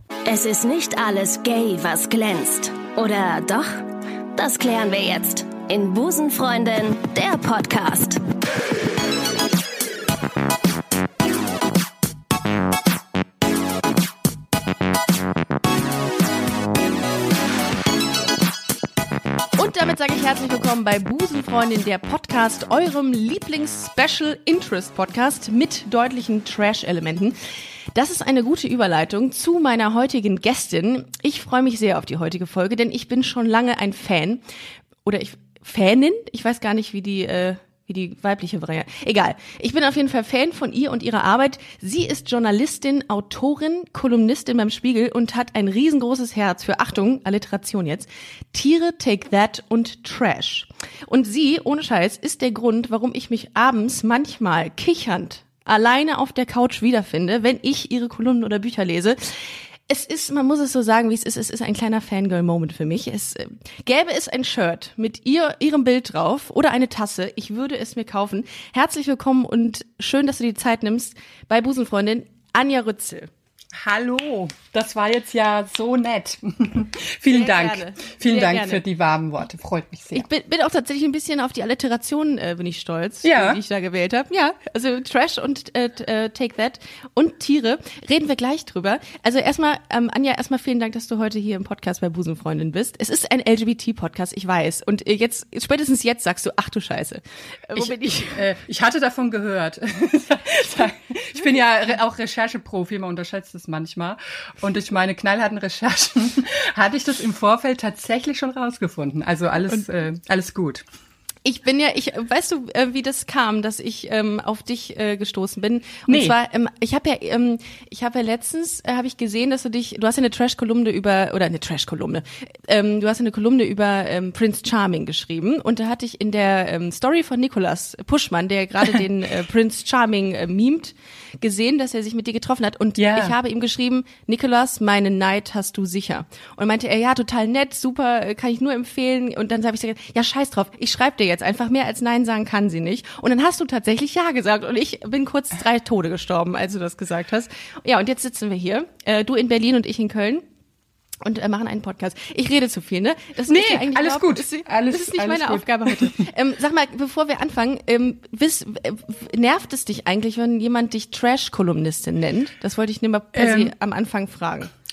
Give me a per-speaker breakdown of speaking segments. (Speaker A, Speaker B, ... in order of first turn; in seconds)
Speaker A: 0.3-8.2
Speaker B: 19.6-27.3, 27.9-34.4, 35.0-73.3, 77.3-78.8, 80.1-98.5, 111.4-150.4, 151.2-164.7
Speaker C: 73.8-80.3, 83.2-83.6, 97.8-110.8, 116.1-116.4, 133.0-133.3, 153.5-156.3, 163.3-163.7